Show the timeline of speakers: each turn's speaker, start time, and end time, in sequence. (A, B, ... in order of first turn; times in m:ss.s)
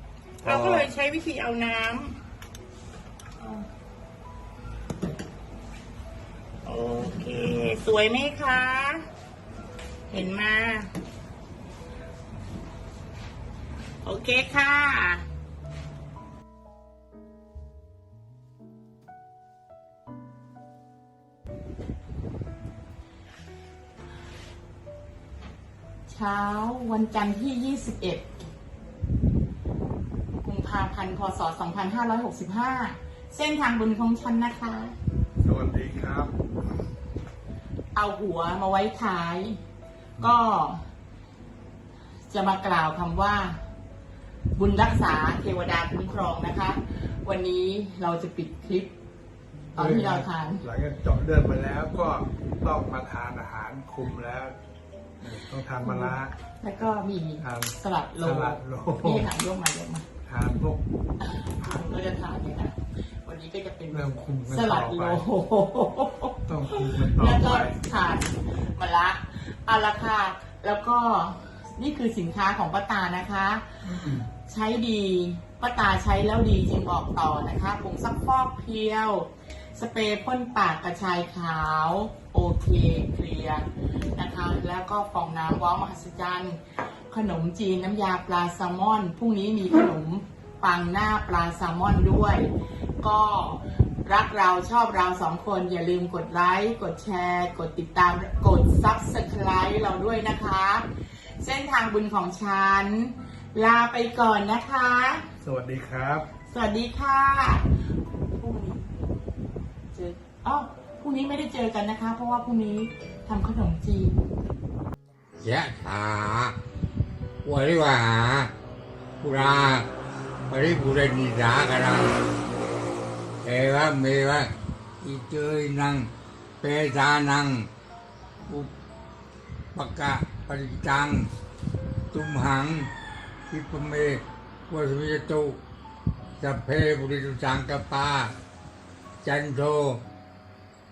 0:00.4-0:00.9 A
0:00.4-0:02.2 B
0:03.4-0:03.7 B
0:06.6-0:09.0 B
0:10.1-0:10.9 B
0:14.0-0:15.2 B
0:26.1-0:28.3 B
0:30.4-0:34.9 B
0:35.4-0:36.4 A
0:38.0-0:39.6 B
0:40.2-0:40.8 B
0:42.3-0:43.6 B
0:44.6-0:48.9 B
0:49.8-0:50.6 B
0:49.8-0:54.6 A
0:55.2-0:56.3 A
0:55.8-1:00.0 B
0:57.4-0:59.3 A
1:00.3-1:00.8 A
1:01.2-1:13.8 B
1:03.9-1:05.2 A
1:06.5-1:07.8 A
1:13.8-1:14.3 A
1:14.4-1:40.9 B
1:41.4-1:45.2 B
1:45.4-1:46.3 A
1:46.5-1:47.7 B
1:48.3-1:48.9 B
1:49.9-1:54.2 B
1:55.4-1:56.6 C
1:57.4-1:58.5 C
1:59.2-1:59.9 C
2:00.5-2:02.2 C
2:03.4-2:06.1 C
2:06.6-2:07.7 C
2:09.7-2:11.3 C
2:12.1-2:12.9 C
2:13.5-2:15.6 C
2:16.4-2:18.4 C
2:19.2-2:20.0 C